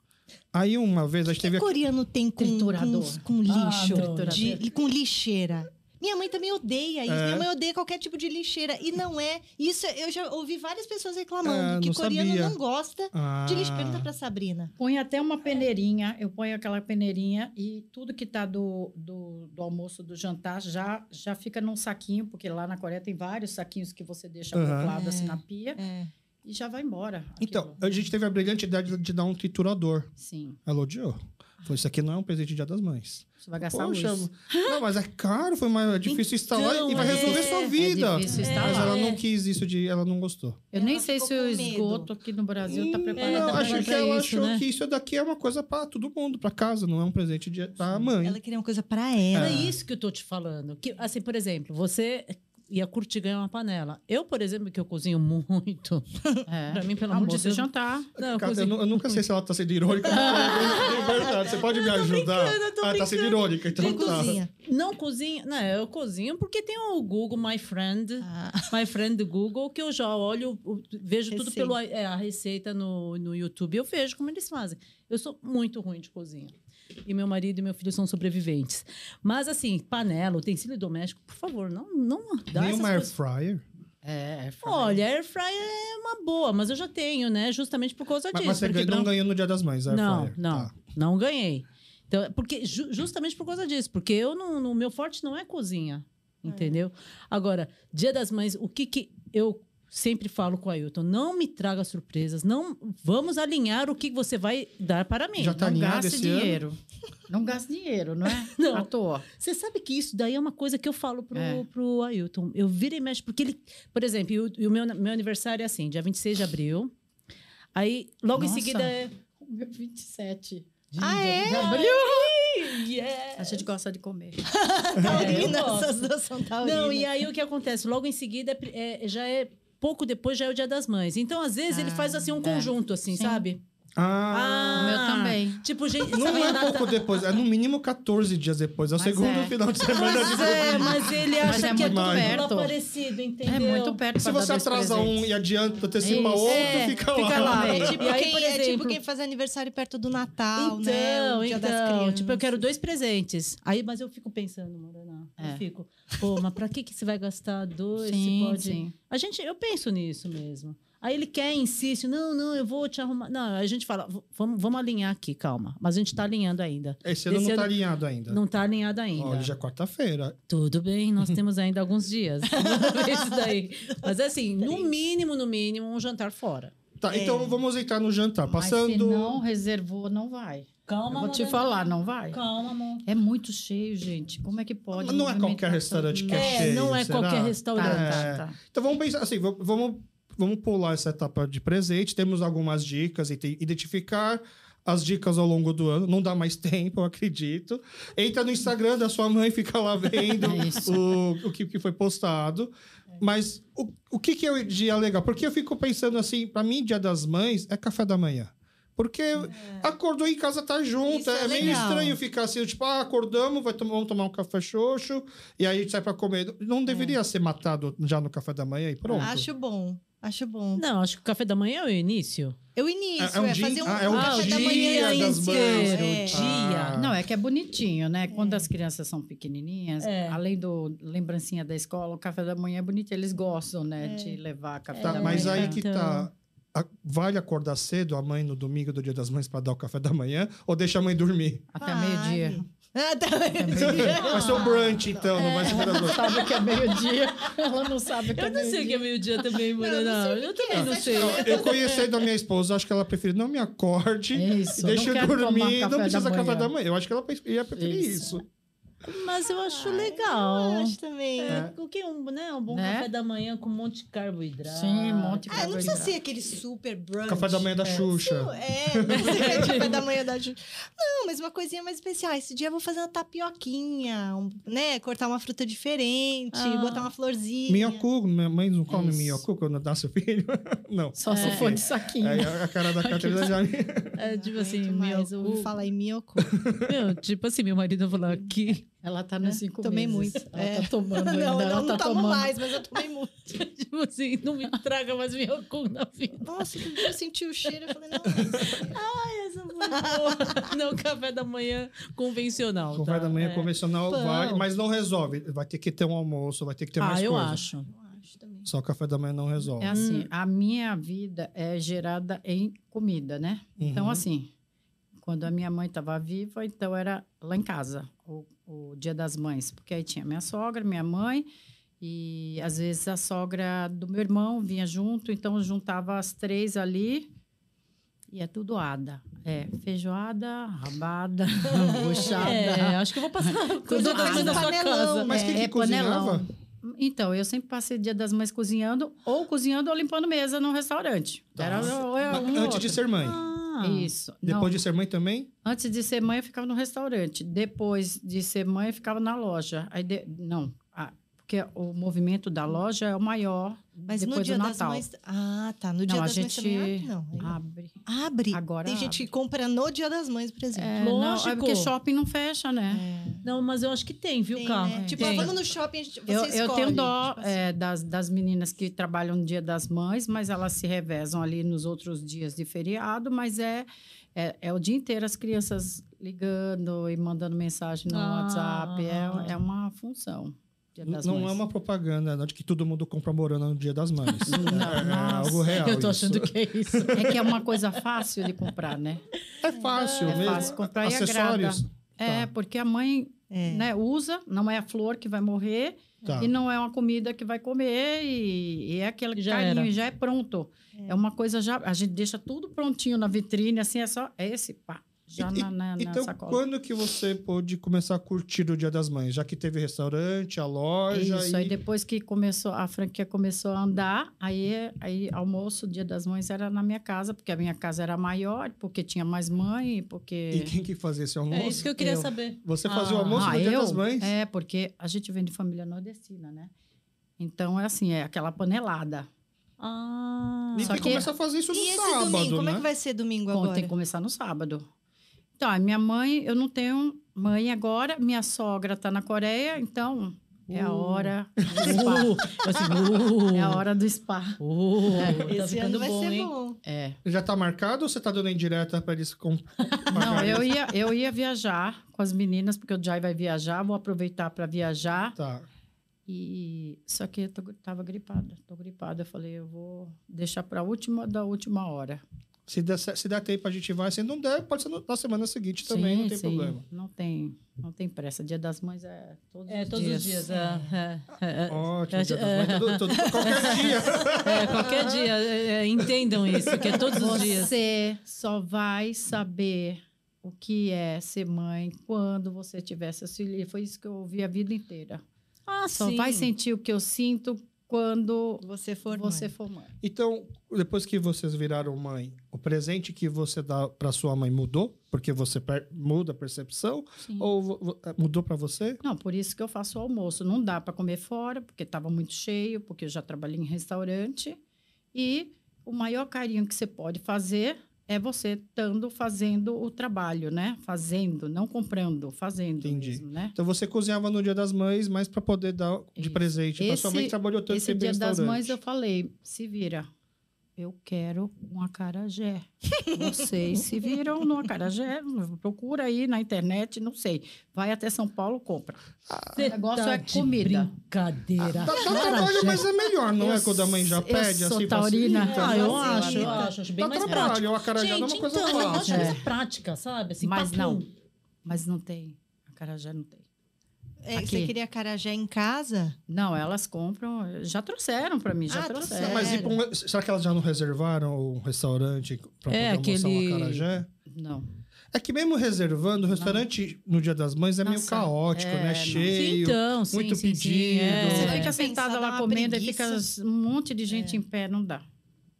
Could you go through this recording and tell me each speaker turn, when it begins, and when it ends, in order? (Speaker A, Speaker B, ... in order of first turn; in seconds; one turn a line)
Speaker A: 0.5-1.7
Speaker B: 1.4-14.7
Speaker C: 2.4-4.6
Speaker D: 3.5-4.7
Speaker A: 7.1-7.5
Speaker A: 11.4-12.6
Speaker A: 13.1-14.1
Speaker C: 14.8-25.8
Speaker A: 24.5-24.9
Speaker B: 24.9-26.1
Speaker C: 26.4-27.8
Speaker A: 27.4-30.1
Speaker C: 30.2-30.6
Speaker A: 30.6-40.6
Speaker C: 33.4-34.3
Speaker D: 36.0-37.7
Speaker C: 37.0-39.0
Speaker B: 37.1-37.5
Speaker D: 38.3-39.2
Speaker C: 40.7-43.9
Speaker B: 40.7-42.1
Speaker A: 42.6-48.4
Speaker D: 43.2-44.6
Speaker B: 48.2-49.7
Speaker A: 49.3-49.7
Speaker D: 49.3-56.0
Speaker C: 56.5-58.1
Speaker D: 56.7-59.2
Speaker A: 58.2-64.4
Speaker D: 60.0-76.5
Speaker B: 63.7-64.5
Speaker B: 68.2-68.7
Speaker B: 71.3-71.8
Speaker D: 77.0-83.1
Speaker A: 82.5-83.6
Speaker C: 84.0-85.0
Speaker D: 84.6-89.1
Speaker A: 88.3-90.7
Speaker D: 89.9-105.6
Speaker B: 96.5-96.8
Speaker A: 105.4-106.6
Speaker C: 105.5-106.8
Speaker C: 107.3-109.3
Speaker D: 108.5-116.9
Speaker C: 111.3-111.6
Speaker D: 117.7-119.1
Speaker C: 118.3-120.7
Speaker D: 120.9-123.6
Speaker B: 121.0-121.9
Speaker C: 121.4-122.3
Speaker C: 123.3-124.4
Speaker B: 124.4-127.1
Speaker A: 125.0-125.4
Speaker D: 125.0-126.0
Speaker D: 126.6-133.6
Speaker C: 132.3-133.4
Speaker A: 133.9-135.0
Speaker D: 134.3-137.3
Speaker C: 134.8-135.6
Speaker A: 136.0-142.5
Speaker C: 139.0-139.6
Speaker D: 139.9-144.0
Speaker B: 139.9-140.7
Speaker C: 140.4-142.8
Speaker C: 143.4-145.2
Speaker A: 144.2-148.0
Speaker C: 146.0-146.8
Speaker D: 146.3-149.0
Speaker B: 146.5-152.6
Speaker C: 147.4-147.8
Speaker D: 150.6-167.7
Speaker C: 158.0-158.9
Speaker A: 167.0-168.4
Speaker D: 168.3-169.5
Speaker A: 169.2-170.4
Speaker D: 170.5-176.7
Speaker B: 172.5-174.1
Speaker B: 174.6-174.9
Speaker A: 177.0-179.4
Speaker B: 177.1-177.6
Speaker C: 178.5-182.4
Speaker D: 180.9-183.0
Speaker C: 183.0-186.7
Speaker A: 184.9-219.5
Speaker D: 186.3-188.3
Speaker C: 187.7-188.6
Speaker C: 200.4-201.1
Speaker B: 211.1-212.2
Speaker C: 216.9-217.1
Speaker B: 219.1-220.8
Speaker D: 220.8-222.6
Speaker B: 222.7-226.5
Speaker A: 223.2-227.2
Speaker D: 224.1-227.0
Speaker C: 226.9-235.8
Speaker B: 228.3-228.7
Speaker D: 230.0-230.4
Speaker B: 234.0-234.4
Speaker D: 234.9-236.3
Speaker A: 235.0-241.7
Speaker C: 241.7-242.6
Speaker B: 241.8-246.4
Speaker C: 243.5-244.6
Speaker A: 243.7-246.3
Speaker D: 244.2-244.7
Speaker D: 245.3-246.3
Speaker C: 245.7-249.1
Speaker D: 248.3-252.1
Speaker B: 249.7-252.1
Speaker A: 250.7-258.4
Speaker C: 254.3-256.7
Speaker C: 257.8-258.4
Speaker D: 259.0-266.0
Speaker B: 259.6-261.6
Speaker A: 261.5-261.7
Speaker C: 262.7-263.1
Speaker C: 264.6-266.1
Speaker B: 265.5-278.0
Speaker A: 267.3-269.9
Speaker D: 269.1-270.0
Speaker D: 276.5-277.1
Speaker A: 277.7-284.1
Speaker C: 278.9-279.4
Speaker C: 281.2-282.6
Speaker D: 281.3-281.8
Speaker D: 283.0-283.5
Speaker D: 284.2-285.7
Speaker B: 284.2-286.6
Speaker A: 286.4-286.9
Speaker D: 286.8-288.8
Speaker C: 289.0-292.8
Speaker B: 289.4-293.6
Speaker D: 293.5-297.1
Speaker B: 296.4-299.0
Speaker A: 298.3-298.7
Speaker D: 298.6-303.7
Speaker B: 299.7-300.7
Speaker A: 302.9-307.6
Speaker B: 304.1-304.6
Speaker D: 307.0-307.9
Speaker B: 307.9-308.7
Speaker A: 308.6-310.0
Speaker C: 309.8-314.5
Speaker D: 309.9-310.3
Speaker A: 313.8-314.2
Speaker C: 315.2-321.5
Speaker C: 322.0-327.3
Speaker C: 328.3-334.7
Speaker B: 331.8-332.5
Speaker D: 332.2-335.4
Speaker B: 333.9-335.6
Speaker A: 335.3-336.4
Speaker C: 335.5-343.0
Speaker A: 341.6-343.4
Speaker D: 343.1-344.1
Speaker C: 343.8-344.8
Speaker A: 344.4-345.5
Speaker C: 345.6-355.0
Speaker B: 354.1-361.0
Speaker C: 356.1-359.2
Speaker C: 360.7-363.0
Speaker D: 361.0-361.9
Speaker B: 362.9-363.4
Speaker D: 363.4-365.6
Speaker B: 364.5-367.6
Speaker C: 364.9-365.6
Speaker C: 366.3-381.6
Speaker D: 378.1-379.6
Speaker A: 381.0-387.4
Speaker D: 384.3-387.6
Speaker C: 384.5-385.8
Speaker C: 387.1-389.2
Speaker A: 389.6-392.5
Speaker D: 389.9-390.7
Speaker C: 390.2-406.6
Speaker B: 393.5-393.9
Speaker A: 396.2-396.5
Speaker D: 399.4-399.9
Speaker A: 405.4-411.8
Speaker C: 411.1-420.7
Speaker A: 420.5-424.3
Speaker D: 421.5-423.6
Speaker C: 422.0-422.2
Speaker C: 423.3-426.7
Speaker C: 427.4-429.3
Speaker D: 429.8-431.1
Speaker A: 430.7-432.9
Speaker C: 430.8-431.3
Speaker B: 431.7-433.9
Speaker C: 433.5-434.9
Speaker C: 435.6-442.6
Speaker D: 440.7-443.8
Speaker A: 441.8-442.2
Speaker C: 443.4-444.6
Speaker D: 444.6-446.5
Speaker C: 445.1-445.4
Speaker B: 445.4-446.8
Speaker C: 446.8-447.2
Speaker A: 447.2-450.7
Speaker C: 450.1-455.4
Speaker A: 455.4-455.7
Speaker C: 456.3-462.2
Speaker A: 462.7-466.8
Speaker C: 465.9-470.5
Speaker D: 469.7-477.7
Speaker B: 470.5-470.9
Speaker A: 471.7-475.1
Speaker A: 476.5-477.0
Speaker C: 477.1-485.2
Speaker D: 485.7-486.5
Speaker C: 485.9-489.9
Speaker B: 488.6-489.5
Speaker A: 490.0-499.0
Speaker C: 497.2-497.5
Speaker C: 499.0-504.6
Speaker C: 505.1-513.5
Speaker A: 512.8-518.8
Speaker C: 516.2-520.1
Speaker C: 520.8-529.0
Speaker A: 529.3-529.6
Speaker D: 529.5-532.9
Speaker C: 529.6-530.9
Speaker A: 531.6-536.3
Speaker B: 531.9-532.4
Speaker C: 533.4-536.7
Speaker D: 535.4-541.1
Speaker B: 535.5-536.7
Speaker A: 537.0-539.4
Speaker C: 539.0-539.4
Speaker C: 540.4-541.0
Speaker C: 541.6-543.4
Speaker B: 544.2-546.2
Speaker C: 544.3-544.7
Speaker C: 546.3-549.6
Speaker B: 548.7-549.8
Speaker A: 549.2-554.1
Speaker D: 552.7-553.8
Speaker C: 554.3-554.7
Speaker A: 555.1-561.5
Speaker C: 556.3-556.6
Speaker C: 557.8-559.4
Speaker D: 559.3-561.7
Speaker C: 561.2-565.0
Speaker B: 561.2-563.2
Speaker B: 564.1-564.4